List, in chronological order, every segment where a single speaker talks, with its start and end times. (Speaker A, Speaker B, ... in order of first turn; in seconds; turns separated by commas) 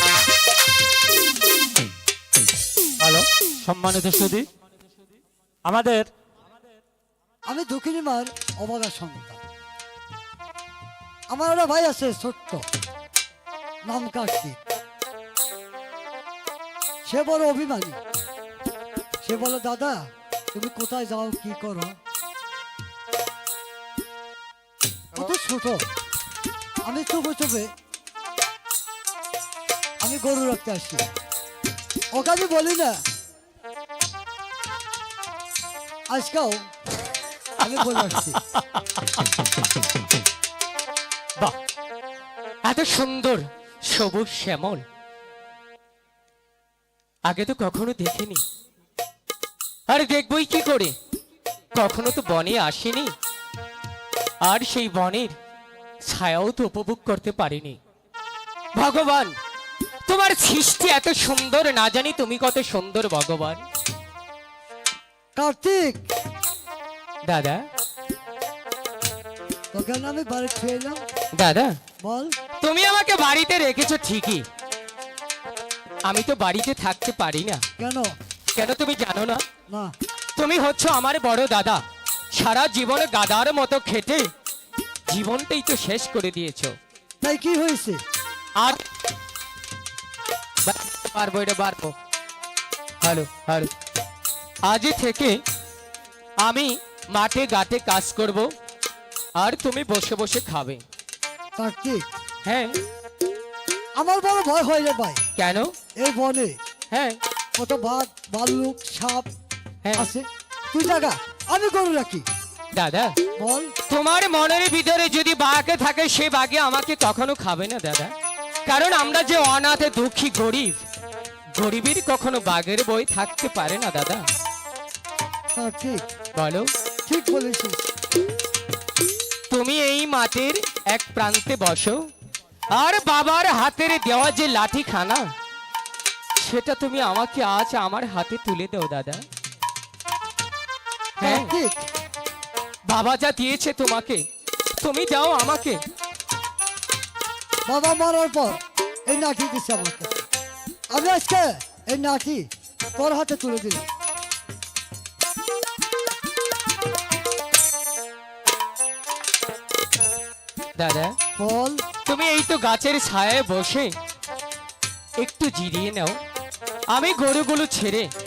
Speaker A: 3.0-4.5, Speaker A: 5.6-6.1, Speaker B: 7.5-9.4, Speaker B: 11.3-12.7, Speaker B: 13.8-14.6, Speaker B: 17.0-18.0, Speaker B: 19.2-22.0, Speaker B: 25.1-25.9, Speaker B: 26.8-27.7, Speaker B: 30.0-31.1, Speaker B: 32.1-33.0, Speaker B: 36.1-36.7, Speaker B: 37.6-38.4, Speaker C: 42.6-44.8, Speaker C: 47.2-48.4, Speaker C: 49.9-50.9, Speaker C: 51.7-53.1, Speaker C: 54.4-55.4, Speaker C: 56.0-57.8, Speaker C: 58.7-59.3, Speaker C: 60.0-63.6, Speaker B: 65.3-66.0, Speaker C: 67.2-67.6, Speaker B: 69.7-71.0, Speaker C: 71.3-71.8, Speaker B: 72.0-72.4, Speaker C: 72.6-74.5, Speaker C: 76.0-77.6, Speaker B: 77.8-78.1, Speaker C: 78.5-79.4, Speaker B: 79.7-79.9, Speaker C: 80.3-84.3, Speaker C: 85.1-86.8, Speaker B: 87.2-88.0, Speaker C: 90.6-91.9, Speaker C: 93.0-93.7, Speaker C: 94.6-95.4, Speaker C: 96.4-98.5, Speaker C: 99.4-100.8, Speaker B: 101.6-102.0, Speaker C: 102.4-102.8, Speaker B: 104.0-105.2, Speaker C: 105.4-105.7, Speaker B: 106.0-106.6, Speaker C: 106.9-107.2, Speaker B: 107.5-109.3, Speaker C: 109.8-110.1, Speaker B: 109.9-112.2, Speaker C: 112.7-113.2, Speaker B: 113.4-113.7, Speaker C: 113.8-118.1, Speaker C: 118.6-120.8, Speaker C: 121.5-124.3, Speaker B: 125.5-126.1, Speaker C: 126.3-126.7, Speaker B: 127.0-127.8, Speaker C: 129.5-132.1, Speaker C: 132.7-135.3, Speaker C: 136.4-139.2, Speaker C: 141.2-141.5, Speaker B: 141.2-141.8, Speaker C: 142.8-144.2, Speaker C: 144.8-145.8, Speaker B: 147.7-150.2, Speaker B: 150.9-153.9, Speaker C: 160.8-161.2, Speaker B: 161.4-161.8, Speaker C: 162.0-163.9, Speaker C: 165.2-166.2, Speaker C: 166.9-168.1